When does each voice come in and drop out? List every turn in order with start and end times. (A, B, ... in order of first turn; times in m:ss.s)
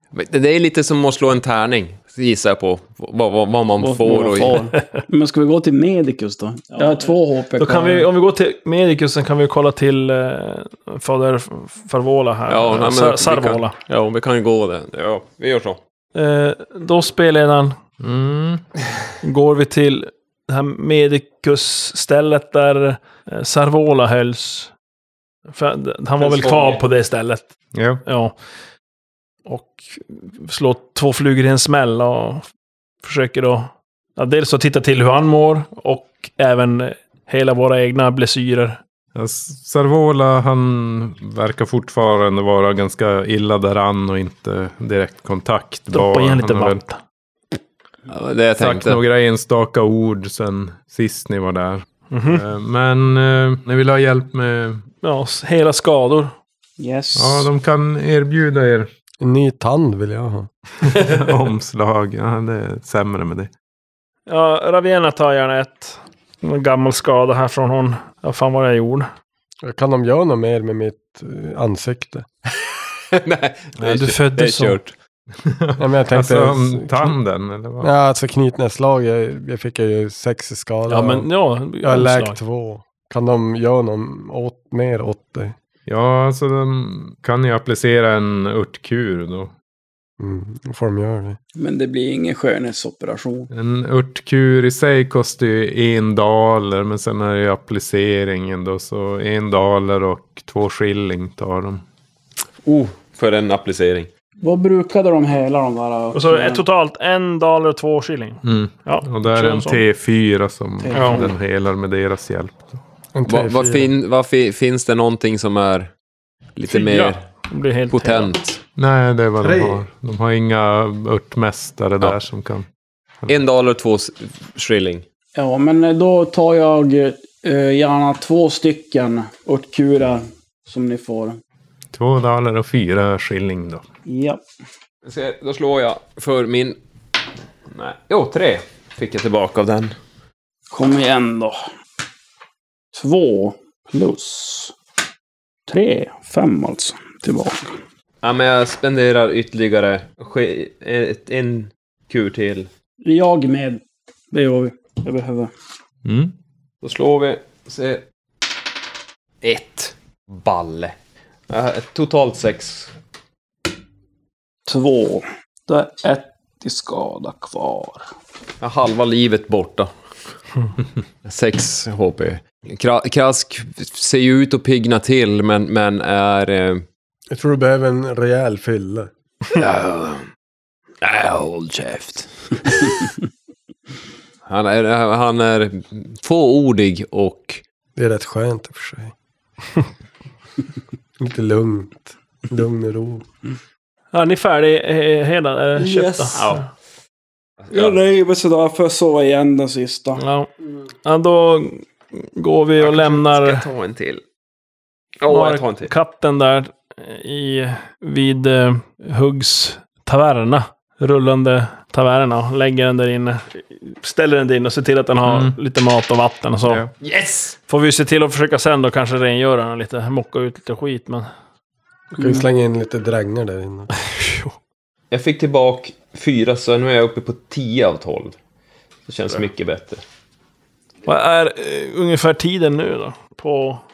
0:00.1-0:04.7 A
0:03.8-0:08.0 B
0:06.8-0:13.8 C
0:12.5-0:15.8 A
0:16.1-0:17.8 C
0:18.0-0:18.6 D
0:19.2-0:24.7 C
0:25.5-0:27.5 C
0:26.2-0:26.8 A
0:27.7-0:28.0 D
0:28.0-0:28.3 C
0:29.4-0:32.5 C
0:33.0-0:38.8 C
0:39.1-0:46.8 D
0:45.9-0:47.0 C
0:48.1-0:49.0 A
0:48.6-0:54.8 D
0:52.1-0:52.4 C
0:55.0-0:56.3 C
0:56.8-0:57.5 B
0:57.1-0:58.9 D
0:59.2-1:00.5 E
1:00.9-1:03.5 D
1:04.3-1:09.1 C
1:09.6-1:12.3 E
1:13.2-1:14.9 A
1:13.8-1:14.8 C
1:15.4-1:17.9 D
1:15.8-1:17.2 E
1:17.8-1:21.3 E
1:20.9-1:22.4 C
1:21.8-1:25.5 E
1:25.9-1:29.5 D
1:30.2-1:31.4 E
1:31.6-1:33.5 B
1:33.5-1:41.8 D
1:42.6-1:44.1 A
1:44.4-1:46.6 B
1:46.1-1:49.8 C
1:48.4-1:52.8 D
1:50.8-1:51.3 B
1:50.9-1:51.3 C
1:53.1-1:53.9 E
1:53.3-1:55.9 A
1:56.6-1:57.2 A
1:56.7-1:58.3 C
1:57.9-1:58.6 A
1:58.8-2:02.6 D
1:59.4-1:59.8 E
2:03.3-2:05.0 A
2:05.3-2:11.4 B
2:11.9-2:13.8 D
2:14.1-2:14.4 B
2:15.0-2:16.8 A
2:17.7-2:20.0 A
2:20.7-2:21.5 B
2:22.9-2:24.7 B
2:25.7-2:27.7 B
2:28.2-2:32.7 A
2:33.0-2:35.5 B
2:36.0-2:36.3 D
2:36.8-2:38.0 A
2:39.4-2:41.0 A
2:41.5-2:42.9 A
2:44.7-2:48.1 B
2:48.6-2:49.9 A
2:51.2-2:56.8 A
2:57.3-2:59.1 E
2:59.5-3:00.2 A
3:01.0-3:02.2 A
3:04.4-3:07.6 A
3:08.0-3:09.1 E
3:11.2-3:13.2 E
3:14.1-3:16.7 C
3:15.8-3:16.4 B
3:16.4-3:16.6 A
3:17.7-3:17.9 A
3:17.7-3:20.2 B
3:20.2-3:20.5 C
3:21.0-3:23.6 C
3:22.8-3:24.2 A
3:25.2-3:25.9 A
3:25.3-3:36.8 C
3:35.2-3:35.5 D
3:37.0-3:37.5 A
3:37.7-3:41.3 C
3:42.2-3:42.5 B
3:42.2-3:43.9 E
3:45.1-3:48.4 A
3:49.1-3:50.0 A
3:51.0-3:53.8 C